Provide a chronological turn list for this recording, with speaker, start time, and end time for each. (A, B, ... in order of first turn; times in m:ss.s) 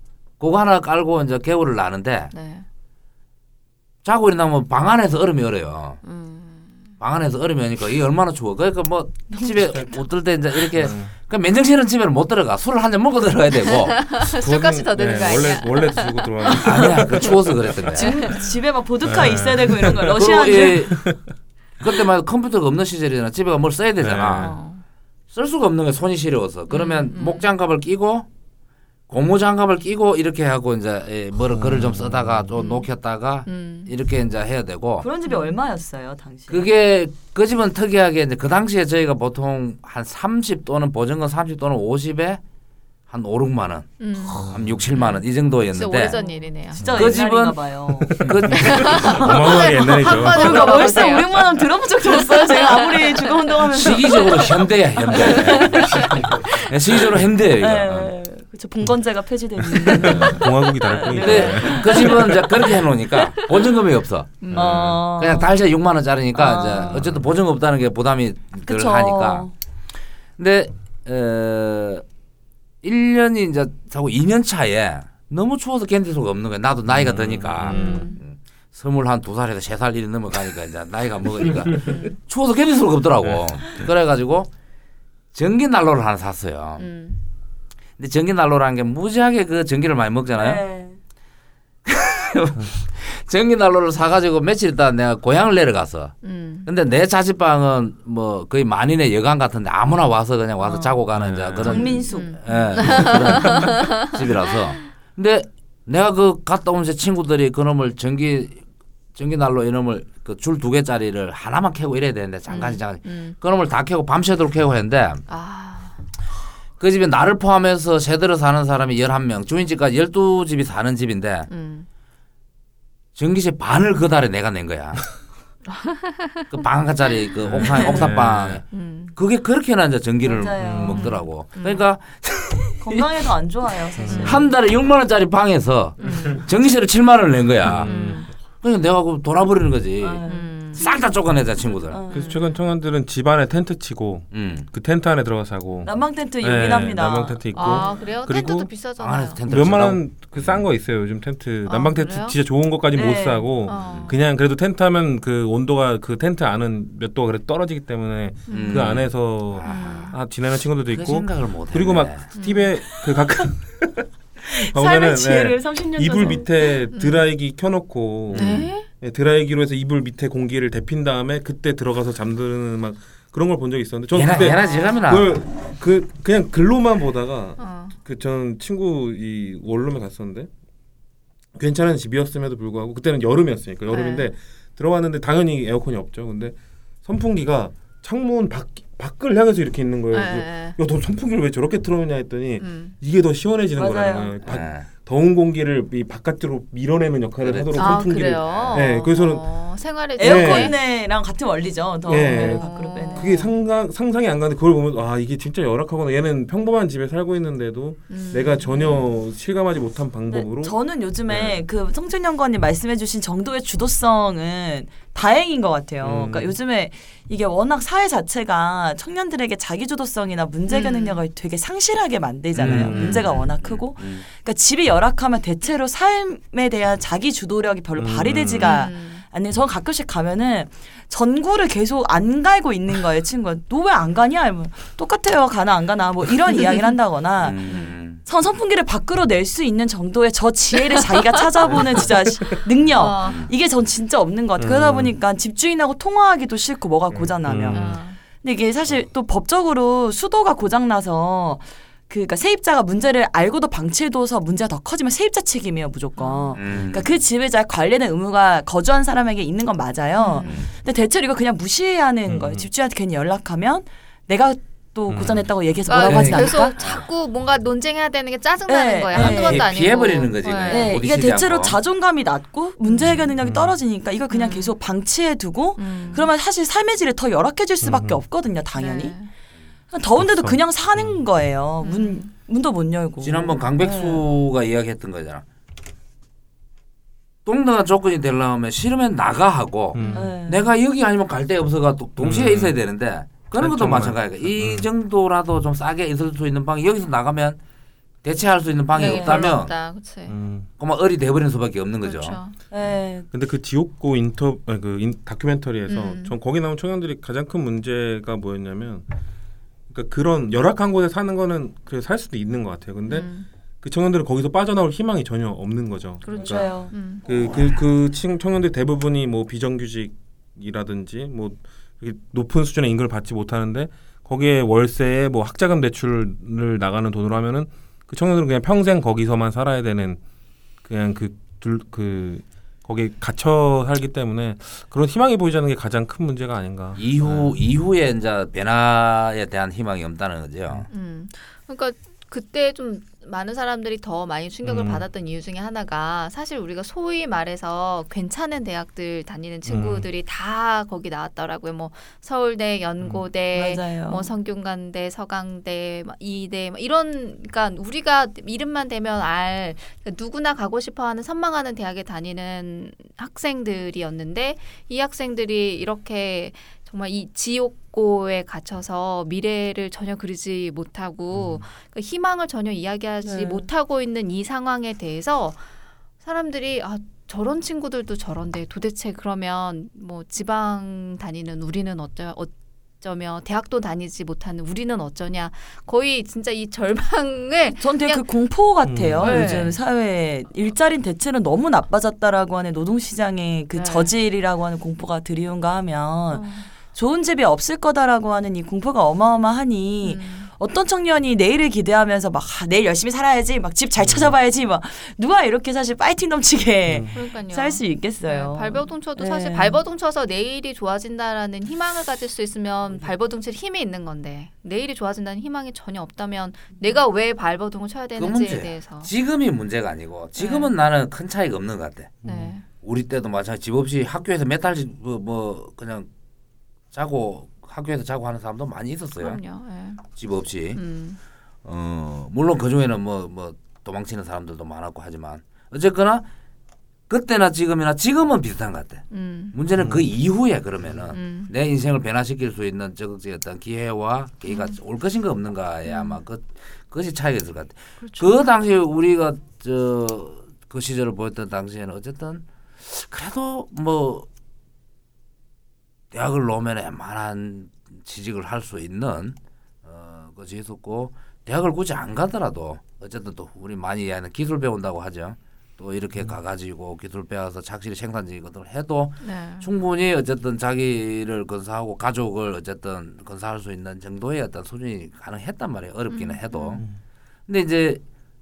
0:00.4-0:02.3 A
0:02.3-0:02.7 B
0:04.0-0:06.0 A
0:06.0-0:06.9 B
0:07.0-0:14.0 A
0:09.3-0:10.0 C
0:10.8-0:11.1 D
0:13.9-0:17.0 B
0:14.4-0:17.8 D
0:16.6-0:18.1 A
0:17.9-0:20.9 C
0:18.0-0:18.4 B
0:19.0-0:21.2 D
0:20.1-0:21.1 A
0:21.8-0:24.6 A
0:24.0-0:24.6 D
0:24.4-0:24.8 B
0:25.3-0:28.3 A
0:26.7-0:27.5 B
0:29.1-0:35.1 A
0:31.6-0:32.4 D
0:32.6-0:32.9 B
0:33.5-0:33.9 B
0:35.0-0:36.7 C
0:35.2-0:35.6 B
0:36.5-0:42.4 A
0:43.1-0:46.2 A
0:44.0-0:47.1 B
0:44.5-0:44.8 D
0:46.2-0:56.2 C
0:46.8-0:47.2 D
0:46.8-0:47.6 A
0:48.0-0:51.1 D
0:48.2-0:49.3 A
0:48.6-0:51.4 B
0:52.0-0:56.7 B
0:53.6-0:58.2 A
0:55.6-0:56.5 D
0:57.6-1:03.2 C
0:59.6-1:02.5 D
1:00.0-1:00.4 A
1:01.0-1:09.5 A
1:01.3-1:02.1 B
1:04.4-1:04.7 B
1:04.5-1:05.0 D
1:04.5-1:05.5 C
1:06.4-1:07.1 C
1:08.7-1:09.5 C
1:10.4-1:12.0 A
1:12.8-1:24.5 A
1:16.9-1:18.1 D
1:17.7-1:18.2 B
1:21.8-1:22.1 B
1:25.3-1:26.9 A
1:26.8-1:27.2 B
1:28.0-1:30.6 A
1:30.4-1:31.0 C
1:31.9-1:48.6 A
1:36.2-1:36.7 B
1:40.6-1:41.0 C
1:41.1-1:42.0 D
1:41.6-1:43.1 C
1:41.6-1:44.2 B
1:49.2-1:55.2 A
1:52.5-1:53.4 B
1:55.3-1:56.0 B
1:56.8-2:01.5 A
2:01.5-2:01.9 B
2:03.2-2:05.1 A
2:05.7-2:06.5 B
2:06.5-2:13.1 A
2:07.4-2:08.6 D
2:07.8-2:08.1 C
2:08.7-2:09.2 B
2:10.2-2:11.1 C
2:10.6-2:11.0 D
2:10.9-2:11.8 B
2:12.8-2:14.5 C
2:14.0-2:14.4 D
2:14.1-2:14.4 B
2:14.2-2:17.9 A
2:16.0-2:16.4 B
2:16.0-2:16.4 D
2:17.6-2:18.2 D
2:17.8-2:18.3 B
2:18.6-2:22.0 A
2:20.0-2:20.5 C
2:20.3-2:20.9 B
2:21.9-2:22.4 C
2:22.1-2:28.7 D
2:24.3-2:24.7 A
2:25.8-2:28.0 C
2:27.5-2:29.4 B
2:29.0-2:30.6 A
2:29.5-3:00.5 D
2:31.6-2:32.4 B
2:32.9-2:33.5 C
2:33.7-2:34.2 B
2:33.8-2:34.1 A
2:38.5-2:38.9 B
2:38.5-2:40.1 A
2:39.6-2:40.2 B
2:40.9-2:42.3 A
2:42.4-2:42.7 B
2:44.5-2:46.7 C
2:46.9-2:47.2 B
2:48.3-2:48.7 A
2:48.3-2:48.9 B
2:54.1-2:55.4 A
2:54.4-2:55.2 B
2:57.6-2:58.0 B
3:01.6-3:19.4 D
3:03.9-3:04.3 B
3:10.1-3:10.8 B
3:12.6-3:13.0 B
3:13.8-3:14.3 C
3:14.4-3:14.9 A
3:17.4-3:18.8 A
3:17.8-3:20.8 B
3:20.2-3:23.4 C
3:20.2-3:20.8 D
3:22.1-3:30.8 D
3:22.2-3:23.5 B
3:28.1-3:29.0 B
3:30.3-4:26.8 C
3:31.3-3:31.6 D
3:36.0-3:36.6 D
3:40.7-3:41.2 B
3:42.6-3:44.2 A
3:42.6-3:43.3 D
3:42.9-3:43.2 B
3:48.0-3:48.8 D
3:48.6-3:49.2 B
3:57.4-3:58.2 A
3:57.6-3:58.0 B
4:03.0-4:03.5 B
4:03.2-4:03.5 A
4:04.6-4:05.1 D
4:07.1-4:08.0 D
4:07.7-4:08.2 B
4:16.2-4:16.6 B
4:16.6-4:17.2 A
4:20.2-4:20.6 B
4:20.4-4:20.7 A
4:22.3-4:22.7 D
4:25.1-4:25.5 D
4:25.9-4:31.0 B
4:26.0-4:27.0 A
4:28.7-4:29.7 C
4:29.1-4:31.8 A
4:30.7-4:39.2 C
4:32.8-4:33.3 B
4:33.0-4:33.8 D
4:34.3-4:34.7 B
4:35.8-4:36.3 B
4:37.8-4:38.2 D
4:38.8-4:39.3 B
4:39.9-4:44.2 C
4:40.2-4:41.2 D
4:41.8-4:42.3 B
4:43.2-4:45.4 A
4:47.4-4:57.6 A
4:49.9-4:50.3 D
4:50.0-4:50.3 B
4:50.1-4:50.6 C
4:52.2-4:52.8 D
4:53.6-4:54.9 D
4:58.2-4:59.7 A
4:59.0-5:00.4 B
4:59.0-4:59.5 C
5:00.3-5:00.7 D
5:00.8-5:02.4 A
5:02.0-5:02.6 B
5:02.7-5:03.3 C
5:02.8-5:09.0 D
5:05.9-5:06.4 B
5:09.9-5:30.2 D
5:13.1-5:13.5 B
5:16.2-5:17.2 B
5:16.3-5:16.9 C
5:30.8-5:37.5 D
5:37.0-5:40.9 A
5:40.9-6:15.7 B
5:44.6-5:45.0 D
5:49.7-5:50.1 D
5:53.5-5:54.3 C
6:11.3-6:11.6 D
6:13.2-6:13.7 C
6:16.2-6:28.3 B
6:27.8-6:49.8 C
6:28.8-6:29.7 D
6:29.2-6:29.7 B
6:33.7-6:34.1 B
6:36.3-6:36.7 B
6:40.0-6:40.5 B
6:44.0-6:44.4 D
6:46.9-6:47.2 D
6:47.1-6:59.1 B
6:58.2-7:02.2 A
7:00.4-7:00.7 B
7:02.2-7:02.5 D
7:02.2-7:02.6 B
7:02.8-7:06.1 A
7:06.9-7:09.4 A
7:09.2-7:10.0 B
7:10.2-7:10.8 A
7:10.8-7:11.2 B
7:11.6-7:16.3 A
7:17.1-7:34.3 A
7:19.1-7:19.6 B
7:19.8-7:20.1 D
7:21.1-7:21.5 B
7:24.5-7:24.8 B
7:25.9-7:26.2 B
7:28.0-7:28.4 B
7:36.1-7:56.9 A
7:49.2-7:49.6 B
7:56.1-7:56.8 B
7:57.5-7:58.0 A